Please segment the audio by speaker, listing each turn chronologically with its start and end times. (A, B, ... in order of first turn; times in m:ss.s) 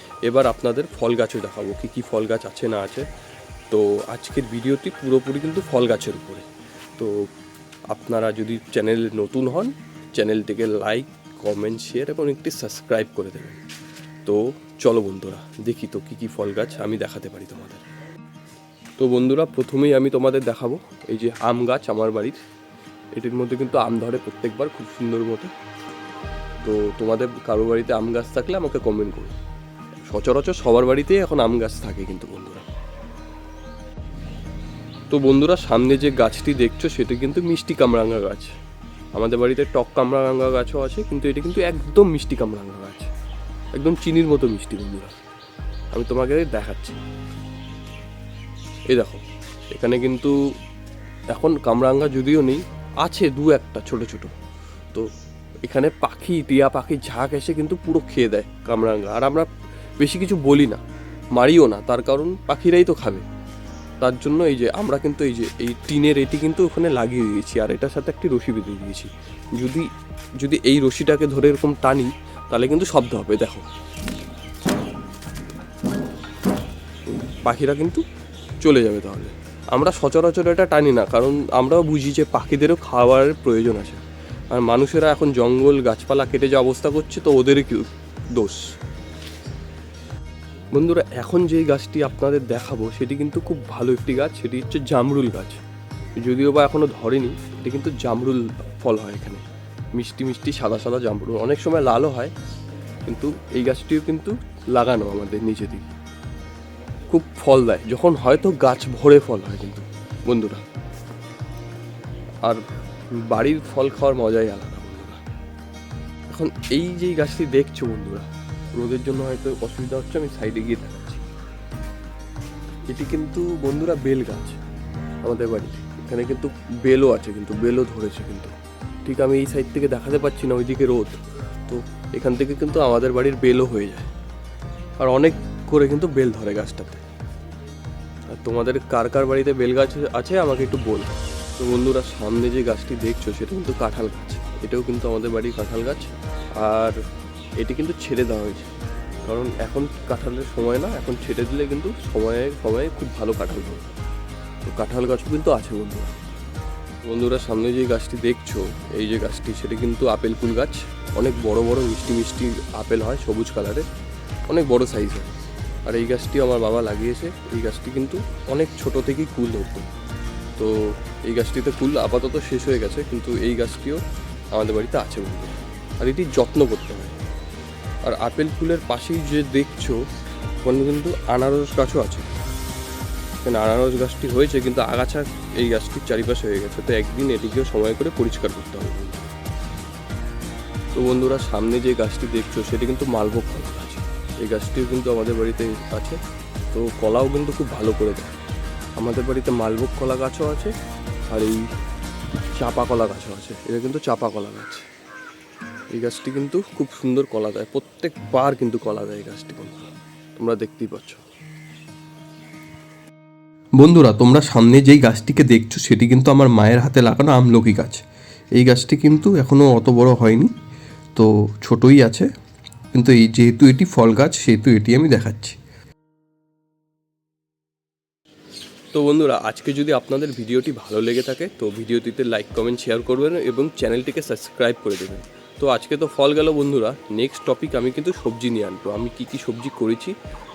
0:00.2-0:03.0 A
0:03.7-0:06.4 A
0:07.0-0:07.2 A
0:07.9-0:13.6 A
0:14.2-0:17.8 A
0:19.0-0:22.4 A
0:23.1-0:25.5 A
0:26.6-0:29.4 A
0:30.1-0:32.6 A
0:35.1-0:38.5 A
0:39.1-0:43.1 A
0:43.8-0:45.1 A
0:45.9-0:47.0 A
0:48.9-0:50.4 A
0:51.3-0:54.3 A
0:55.6-0:59.5 A
1:00.0-1:00.8 A
1:01.3-1:03.2 A
1:04.0-1:09.9 A
1:10.4-1:13.7 A
1:17.3-1:18.0 A
1:18.6-1:28.6 A
1:30.7-1:35.6 A
1:36.2-1:39.4 A
1:40.0-1:42.3 A
1:43.1-1:45.9 A
1:47.1-1:50.6 A
1:53.2-1:55.2 A
1:56.3-2:01.2 A
2:02.9-2:04.6 A
2:05.2-2:08.5 A
2:09.0-2:14.1 A
2:15.0-2:17.0 A
2:18.3-2:27.0 A
2:27.6-2:28.7 A
2:29.2-2:33.9 A
2:34.6-2:36.1 A
2:37.0-2:43.8 A
2:44.5-2:45.4 A
2:45.9-2:49.9 A
2:50.6-2:54.0 A
2:54.5-2:57.2 A
2:58.0-3:00.0 A
3:00.6-3:02.4 A
3:03.4-3:09.3 A
3:10.9-3:16.2 A
3:16.7-3:18.4 A
3:19.0-3:20.7 A
3:21.3-3:21.6 A
3:22.5-3:24.8 A
3:25.9-3:31.2 A
3:33.8-3:38.0 A
3:38.6-3:40.5 A
3:41.1-3:42.3 A
3:42.9-3:45.6 A
3:48.9-4:00.1 A